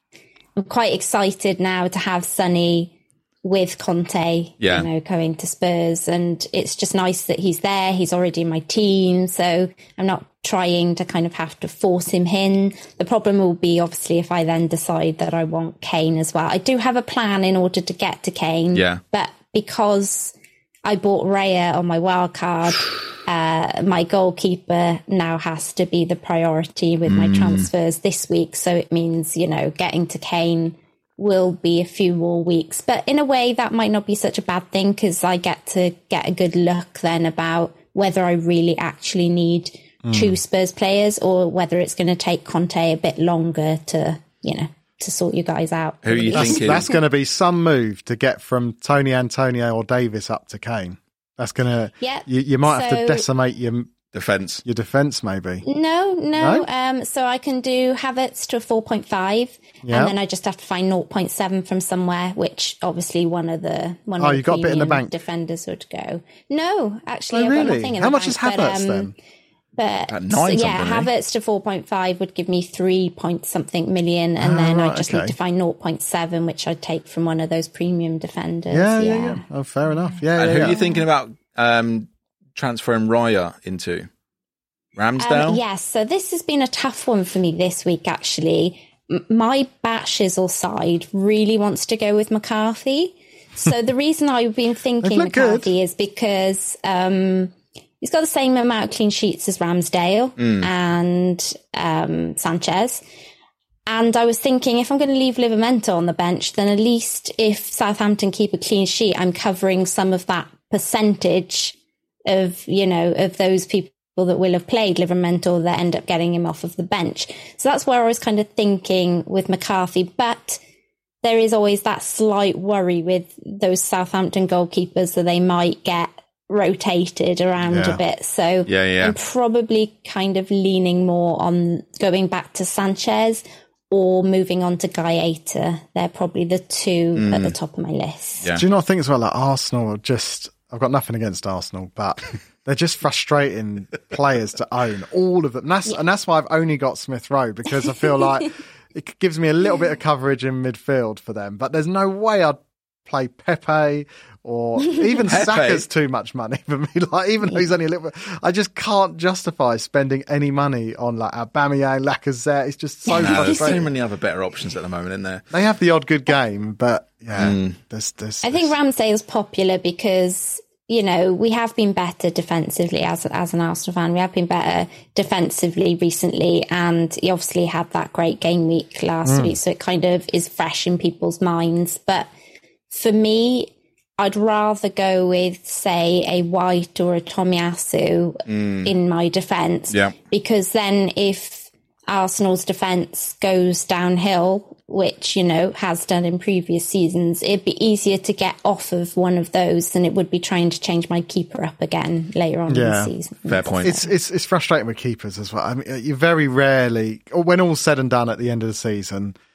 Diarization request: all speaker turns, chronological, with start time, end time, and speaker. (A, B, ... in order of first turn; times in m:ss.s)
0:00.6-0:47.0 A
0:04.6-0:04.9 B
0:18.7-0:19.0 B
0:27.0-0:27.7 B
0:40.0-0:40.4 C
0:46.0-0:46.9 B
0:46.3-0:53.9 C
0:52.0-0:53.2 A
0:54.1-0:54.6 B
0:54.6-0:55.6 C
0:55.6-1:09.1 A
0:56.4-0:56.6 C
0:59.8-1:00.1 C
1:04.2-1:05.1 C
1:07.3-1:09.1 C
1:09.8-1:19.4 A
1:10.1-1:11.1 B
1:14.4-1:15.3 C
1:18.7-1:20.8 C
1:20.4-1:24.1 B
1:20.6-1:21.0 A
1:24.9-1:25.6 B
1:25.2-1:43.0 A
1:35.0-1:35.7 C
1:40.4-1:40.7 B
1:43.9-2:00.6 A
2:01.2-2:18.5 A
2:07.6-2:08.0 C
2:08.6-2:09.2 B
2:17.1-2:17.5 B
2:18.6-2:43.9 C
2:35.3-2:35.8 B
2:43.0-2:43.8 A
2:43.2-2:45.4 B
2:45.5-2:48.7 C
2:47.3-2:47.8 B
2:48.4-3:02.3 A
2:59.2-2:59.5 C
3:02.9-3:24.1 A
3:08.5-3:08.9 B
3:22.7-3:23.1 C
3:23.5-3:23.9 B
3:23.8-3:29.4 C